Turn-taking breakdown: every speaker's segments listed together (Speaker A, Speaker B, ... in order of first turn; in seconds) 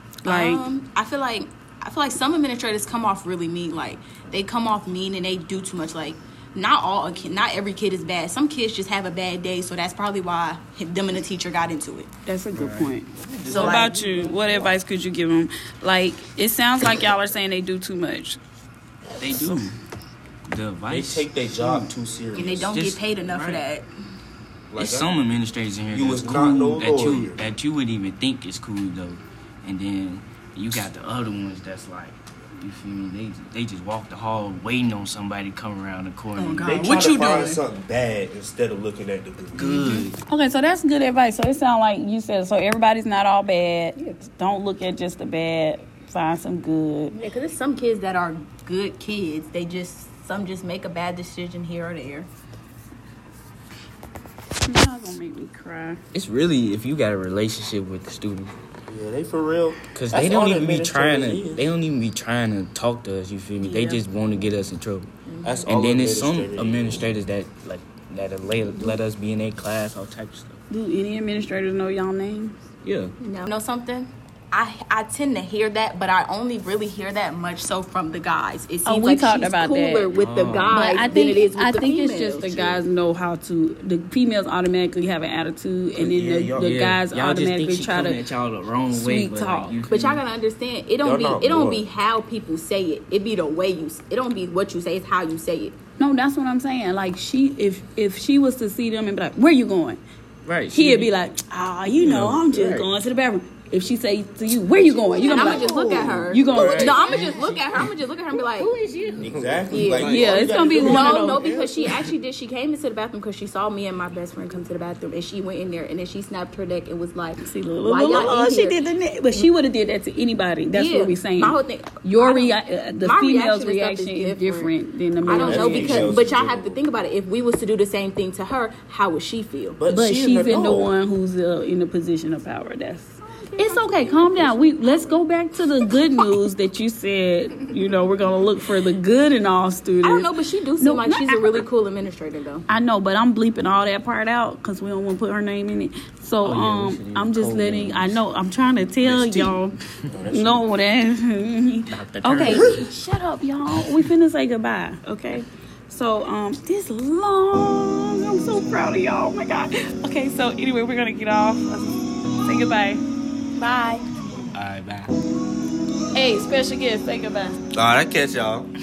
Speaker A: 0.2-0.6, 12.3-18.4, 19.3-19.7, 40.3-47.1, 54.6-56.0, 70.7-72.5, 78.9-88.2, 88.9-89.8, 96.0-100.0, 100.7-107.6, 108.3-111.7, 117.4-126.2, 129.9-141.6, 142.7-163.0, 163.6-164.1, 166.1-167.6
Speaker B: 0.2-12.1, 13.5-14.0, 22.3-23.9, 36.4-37.6, 39.6-40.1, 47.1-52.3, 63.6-64.0, 65.3-65.7, 73.2-82.8, 89.9-95.8, 105.2-108.7, 109.7-118.8, 120.7-124.7, 125.2-129.8, 133.2-135.2, 140.0-142.7
Speaker C: 12.5-12.9, 19.2-19.7, 20.4-21.9, 22.7-23.6, 24.8-37.0, 39.5-40.2, 56.1-58.5, 59.9-70.6, 72.8-73.2, 80.1-81.2, 86.6-90.2, 100.4-101.1, 101.9-102.9, 106.2-107.4, 146.4-148.2, 151.9-152.9, 164.5-165.1
Speaker D: 13.2-14.7, 20.9-22.8, 24.7-25.1, 25.9-27.4, 36.6-39.9, 58.9-61.7, 65.6-67.1, 86.0-86.8, 91.0-91.9, 105.1-107.3, 109.2-111.7, 125.2-126.8, 129.8-130.9, 149.1-149.5, 150.1-150.6, 152.5-152.8, 167.7-168.7